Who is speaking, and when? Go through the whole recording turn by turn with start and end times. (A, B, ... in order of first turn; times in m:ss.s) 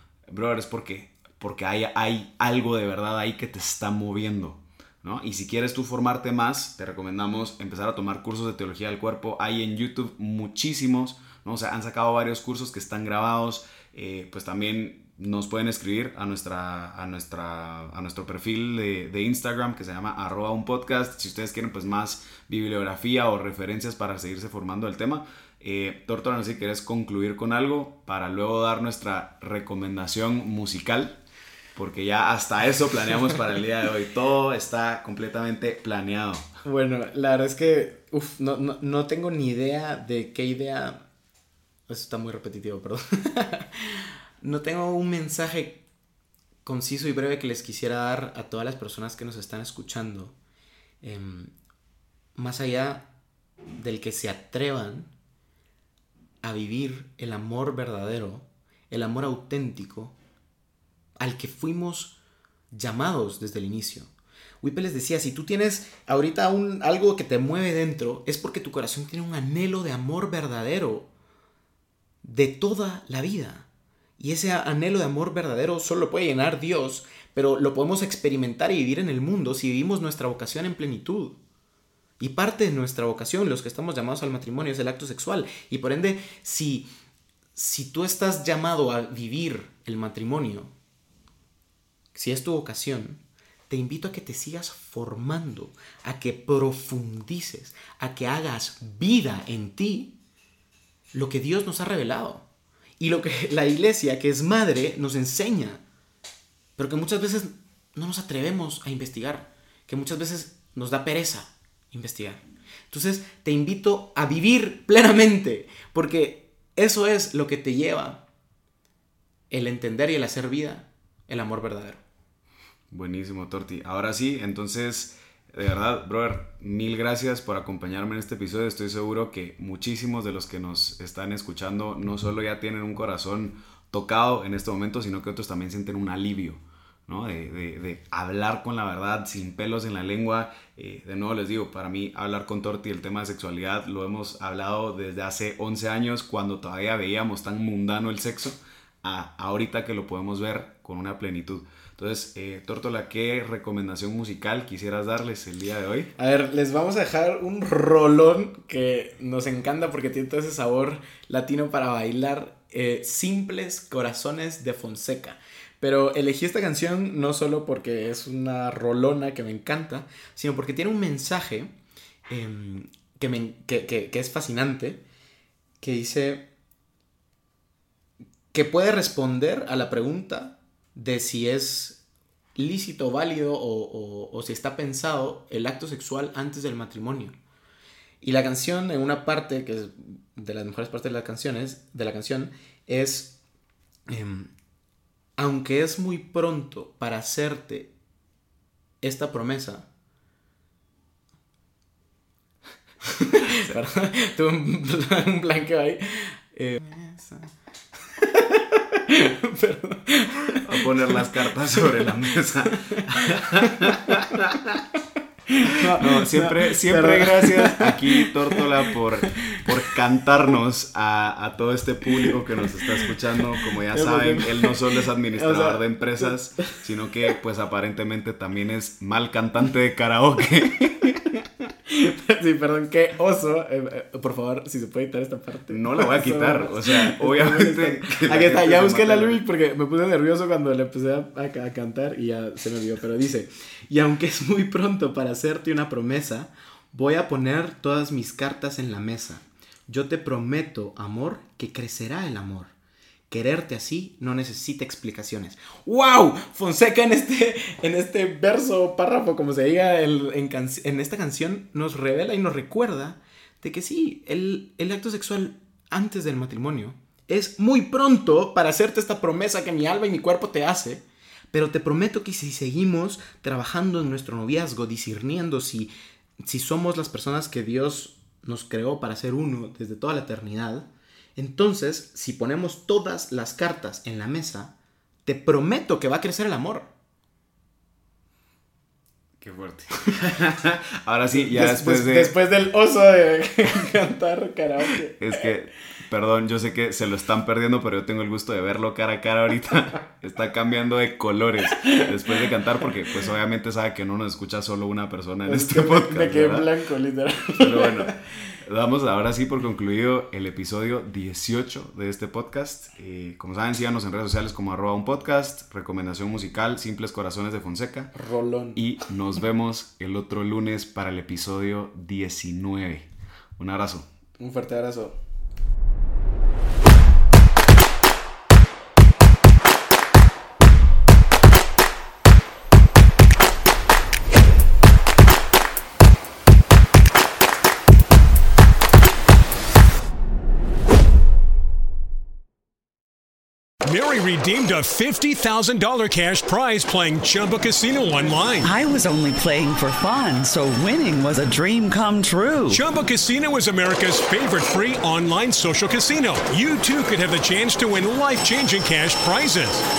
0:00.3-0:31.2 A
0:31.8-0:36.5 A
0:36.6-0:41.0 B
0:41.9-0:45.8 B
0:46.6-0:50.3 B
0:51.0-0:51.5 B
0:52.4-0:53.1 B
0:53.8-0:55.1 B
0:56.4-1:00.2 B
1:01.2-1:02.1 B
1:02.7-1:04.1 B
1:04.6-1:11.1 B
1:12.2-1:13.7 B
1:14.2-1:21.4 B
1:22.2-1:26.9 B
1:27.6-1:30.7 B
1:32.1-1:40.1 B
1:41.1-1:42.4 B
1:43.0-1:45.8 B
1:46.8-1:58.2 B
1:59.5-2:02.0 B
2:02.9-2:36.1 A
2:36.2-2:51.7 B
2:52.3-2:55.0 B
2:55.8-2:56.5 B
2:58.5-3:02.0 B
3:02.6-3:07.3 B
3:08.2-3:13.4 B
3:14.1-3:14.5 B
3:15.4-3:17.9 B
3:19.0-3:19.9 B
3:23.2-3:27.5 B
3:28.1-3:32.1 B
3:30.6-3:34.8 A
3:32.6-3:34.4 B
3:35.5-3:38.6 B
3:35.9-3:51.4 A
3:39.2-3:39.6 B
3:43.7-3:44.8 B
3:45.3-3:46.3 B
3:51.9-4:12.7 B
3:55.7-3:59.4 A
4:13.3-4:44.7 B
4:45.2-4:46.9 B
4:49.4-4:52.3 A
4:51.3-4:55.5 B
4:55.2-5:06.7 A
5:05.4-5:08.1 B
5:07.5-5:18.1 A
5:18.1-5:18.8 B
5:18.7-5:24.1 A
5:24.4-5:25.2 B
5:43.8-5:48.7 C
5:48.6-5:52.8 D
5:52.7-5:59.8 C